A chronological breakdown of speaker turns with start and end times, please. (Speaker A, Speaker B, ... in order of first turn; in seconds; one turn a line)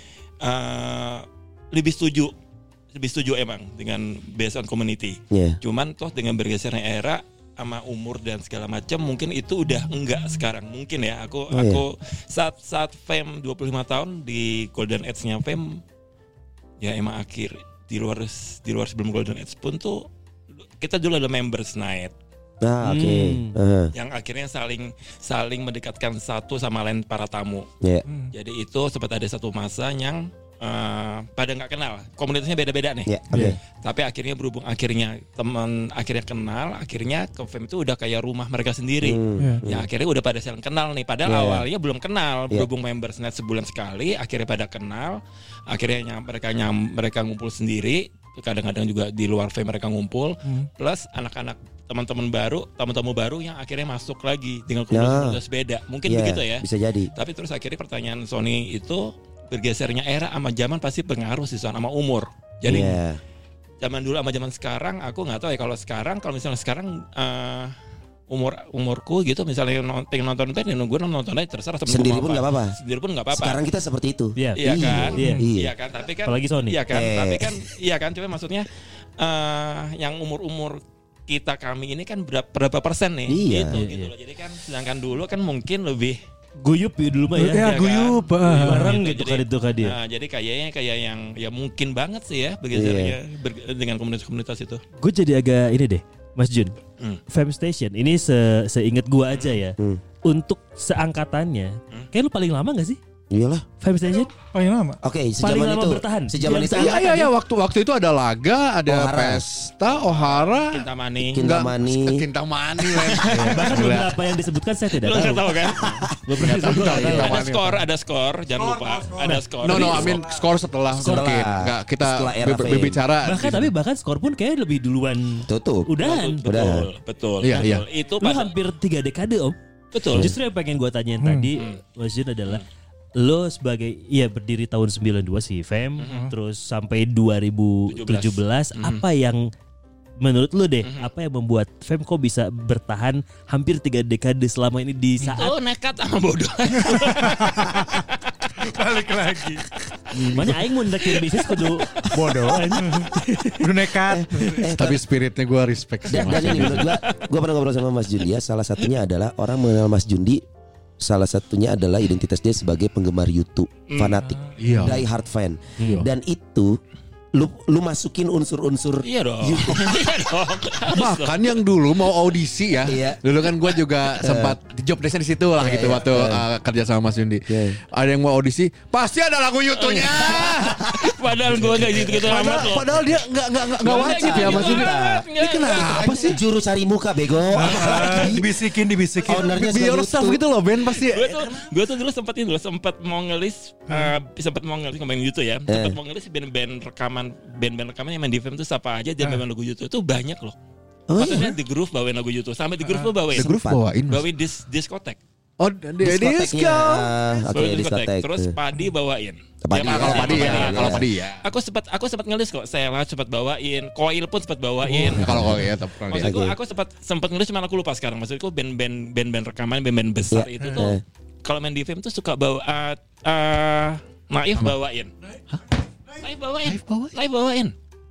Speaker A: 0.4-2.3
Speaker A: 2.9-15.8
Speaker B: 5.3-5.6
Speaker B: 11.5-11.8
Speaker A: 16.8-20.1
Speaker A: 20.8-22.1
Speaker B: 22.6-23.9
Speaker C: 22.8-23.6
Speaker A: 23.9-27.7
Speaker D: 28.1-28.3
Speaker A: 28.3-33.1
Speaker B: 33.1-33.6
Speaker A: 33.8-63.0
Speaker B: 39.0-39.9
Speaker B: 41.2-41.6
Speaker B: 54.9-55.4
Speaker B: 56.0-57.1
Speaker B: 62.6-63.2
Speaker A: 63.8-67.8
Speaker A: 68.3-73.6
Speaker B: 71.9-72.8
Speaker B: 73.3-75.7
Speaker C: 74.4-75.4
Speaker A: 74.6-86.2
Speaker D: 75.2-75.4
Speaker C: 76.2-76.8
Speaker B: 76.9-77.6
Speaker B: 83.3-83.7
Speaker C: 83.7-84.1
Speaker C: 86.6-90.0
Speaker D: 87.3-89.0
Speaker A: 87.6-94.8
Speaker B: 92.7-93.2
Speaker C: 95.0-96.8
Speaker C: 97.3-103.0
Speaker B: 103.3-103.7
Speaker C: 103.8-104.3
Speaker D: 104.5-105.0
Speaker B: 105.0-107.0
Speaker C: 105.4-107.3
Speaker E: 106.7-114.2
Speaker B: 108.9-109.5
Speaker A: 110.0-111.4
Speaker B: 111.3-112.3
Speaker A: 113.0-113.8
Speaker C: 113.3-117.4
Speaker A: 115.0-116.0
Speaker E: 116.4-117.8
Speaker A: 116.7-120.2
Speaker C: 119.2-120.2
Speaker E: 119.6-123.7
Speaker B: 121.0-123.0
Speaker C: 123.2-126.5
Speaker B: 125.5-125.9
Speaker A: 126.0-128.5
Speaker B: 126.4-126.9
Speaker E: 127.4-127.9
Speaker C: 127.5-129.6
Speaker A: 129.9-130.3
Speaker C: 130.1-132.6
Speaker D: 131.2-131.5
Speaker C: 133.2-139.4
Speaker A: 136.0-136.3
Speaker D: 136.1-136.3
Speaker A: 137.9-139.0
Speaker C: 140.2-145.5
Speaker A: 140.8-141.1
Speaker A: 145.2-148.2
Speaker D: 146.8-147.8
Speaker D: 148.6-149.9
Speaker E: 150.1-150.6
Speaker C: 150.2-153.7
Speaker D: 152.8-154.7
Speaker B: 154.1-155.0
Speaker E: 154.7-157.0
Speaker B: 156.1-160.4
Speaker B: 161.0-166.8
Speaker A: 163.9-164.2
Speaker E: 164.6-165.0
Speaker B: 167.3-170.0
Speaker A: 169.0-171.6
Speaker E: 170.9-180.9
Speaker B: 172.8-173.2
Speaker B: 174.1-174.6
Speaker B: 175.6-176.4
Speaker B: 177.5-177.8
Speaker A: 179.8-183.2
Speaker E: 181.7-186.4
Speaker A: 183.8-186.4
Speaker B: 183.8-185.2
Speaker B: 186.0-188.5
Speaker D: 187.5-189.7
Speaker B: 189.3-190.4
Speaker E: 189.4-191.4
Speaker A: 190.9-200.6
Speaker B: 195.7-196.0
Speaker B: 201.1-201.6
Speaker A: 201.2-203.5
Speaker E: 203.3-204.3
Speaker B: 203.3-203.9
Speaker A: 204.1-205.2
Speaker E: 205.6-207.1
Speaker B: 206.0-208.5
Speaker A: 207.5-215.6
Speaker B: 209.6-211.1
Speaker E: 209.8-211.4
Speaker E: 215.0-216.4
Speaker B: 215.1-216.6
Speaker A: 216.1-225.1
Speaker B: 220.3-221.0
Speaker A: 226.2-227.7
Speaker E: 226.7-227.1